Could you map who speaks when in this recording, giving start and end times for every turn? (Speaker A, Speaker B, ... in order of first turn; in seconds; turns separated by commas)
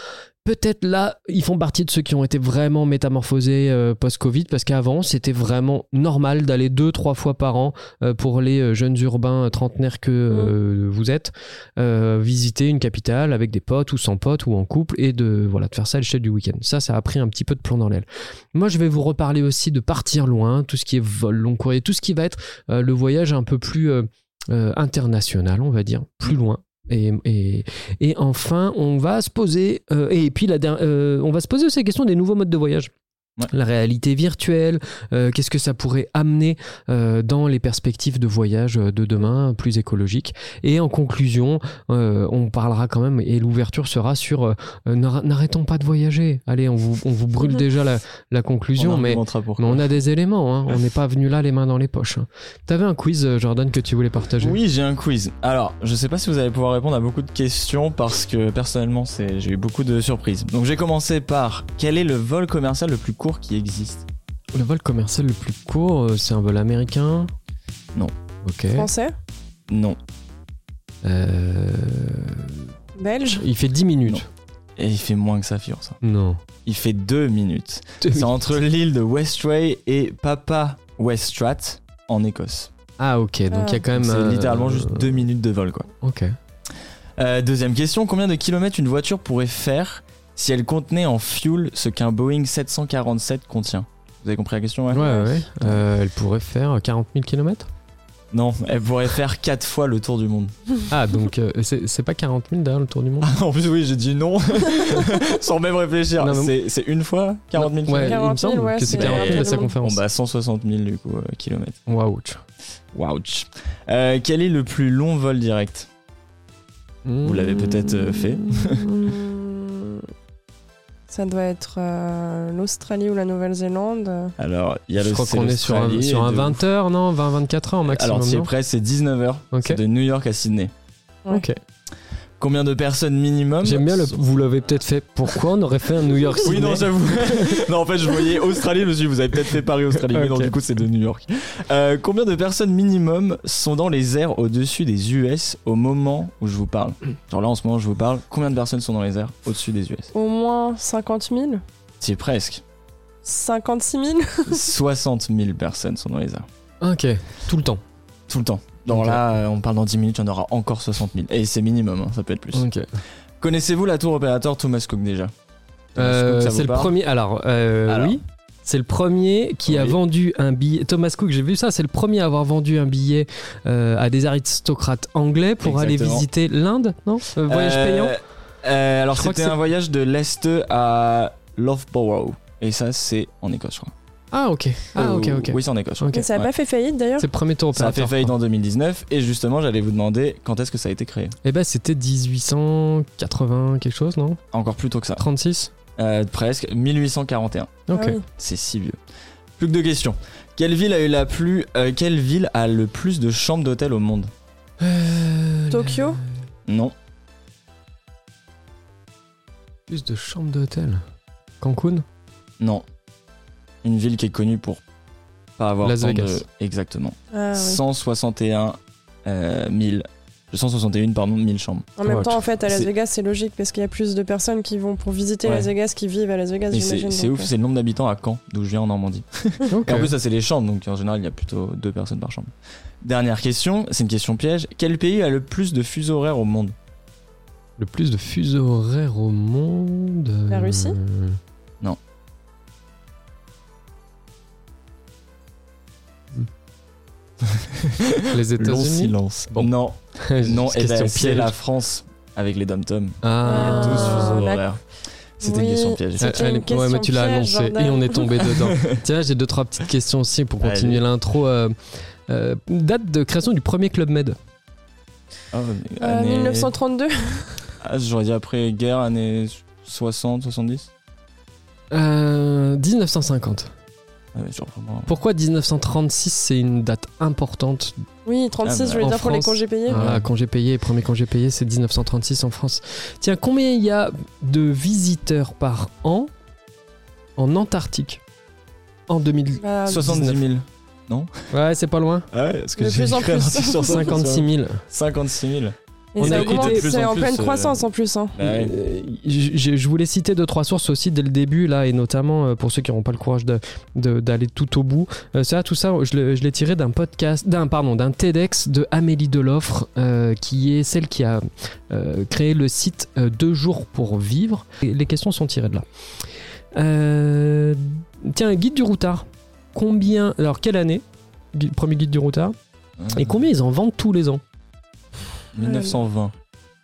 Speaker A: 0.4-32.9, Speaker A: 33.5-54.6, Speaker B: 48.8-49.8, Speaker B: 54.4-64.0, Speaker A: 64.5-67.3, Speaker A: 68.4-68.9, Speaker C: 68.7-69.1, Speaker B: 69.7-70.0, Speaker A: 71.0-72.7, Speaker C: 73.0-73.4, Speaker A: 73.4-74.3, Speaker B: 74.8-76.0, Speaker A: 76.0-76.4, Speaker B: 76.6-82.7, Speaker A: 78.0-78.4, Speaker A: 83.0-85.2, Speaker C: 83.5-83.8, Speaker B: 83.9-85.9, Speaker A: 86.0-86.4, Speaker B: 87.2-95.0, Speaker A: 94.9-97.7, Speaker C: 94.9-95.3, Speaker B: 98.3-100.6, Speaker A: 100.9-103.3, Speaker B: 103.2-108.2, Speaker A: 106.2-106.5, Speaker A: 107.5-110.0, Speaker C: 108.0-109.7, Speaker B: 108.8-111.8, Speaker A: 111.9-112.4, Speaker B: 112.9-115.9, Speaker A: 117.0-118.7, Speaker B: 117.2-118.9, Speaker C: 118.8-120.0, Speaker C: 121.1-124.3, Speaker B: 124.4-126.6, Speaker A: 125.0-128.5, Speaker B: 127.9-130.7, Speaker A: 129.5-129.8, Speaker A: 131.3-131.6, Speaker B: 132.4-134.2, Speaker A: 133.6-136.9, Speaker B: 136.4-150.1, Speaker A: 140.1-140.6, Speaker C: 150.1-151.6, Speaker B: 152.0-152.6, Speaker C: 153.2-154.6, Speaker B: 154.5-156.5, Speaker A: 156.8-157.8, Speaker B: 158.3-162.7, Speaker A: 158.9-159.2, Speaker A: 162.5-162.9, Speaker B: 163.4-165.3, Speaker B: 165.9-166.9, Speaker A: 165.9-178.2, Speaker B: 167.9-168.2, Speaker B: 169.7-170.0, Speaker B: 175.6-176.2, Speaker B: 177.4-183.9, Speaker A: 179.1-179.6, Speaker A: 184.3-186.3, Speaker B: 184.9-186.5, Speaker C: 186.1-187.3, Speaker A: 187.2-188.3, Speaker B: 187.7-191.3, Speaker A: 191.4-194.4, Speaker B: 194.5-195.2, Speaker A: 195.2-195.7, Speaker B: 196.0-199.0, Speaker A: 197.9-198.2, Speaker C: 197.9-198.2, Speaker B: 199.6-204.3, Speaker A: 204.8-206.4, Speaker C: 205.7-206.2, Speaker B: 206.7-206.9, Speaker A: 209.9-211.0, Speaker A: 211.6-212.0, Speaker B: 213.8-214.8, Speaker B: 215.6-221.9, Speaker A: 215.8-216.4, Speaker C: 217.3-217.8, Speaker C: 222.0-227.5, Speaker A: 222.0-222.3, Speaker B: 225.4-225.7, Speaker B: 226.7-232.5, Speaker A: 229.7-230.1, Speaker B: 233.0-236.7, Speaker A: 237.8-241.4, Speaker C: 240.5-241.0, Speaker B: 248.2-256.4, Speaker A: 248.3-251.5, Speaker A: 253.2-254.4, Speaker C: 253.4-254.6, Speaker C: 255.4-258.2, Speaker A: 256.2-264.4, Speaker B: 258.5-259.0, Speaker B: 260.6-261.0, Speaker B: 265.5-266.7, Speaker C: 266.0-267.6, Speaker B: 267.8-270.9, Speaker A: 271.9-273.7, Speaker B: 274.3-275.1, Speaker A: 275.1-278.0, Speaker C: 278.2-280.0, Speaker B: 278.6-279.0, Speaker A: 279.0-286.3, Speaker B: 279.9-280.3, Speaker A: 287.4-288.2, Speaker A: 289.1-290.4, Speaker C: 289.6-290.0, Speaker B: 289.9-291.5, Speaker A: 291.5-292.3, Speaker B: 292.3-298.7, Speaker C: 292.8-294.1, Speaker A: 293.8-294.8, Speaker C: 296.1-298.3, Speaker A: 296.2-296.9, Speaker A: 298.4-316.2, Speaker A: 316.7-322.6, Speaker B: 323.0-323.4, Speaker A: 323.1-324.4, Speaker B: 325.5-326.3, Speaker C: 325.6-326.0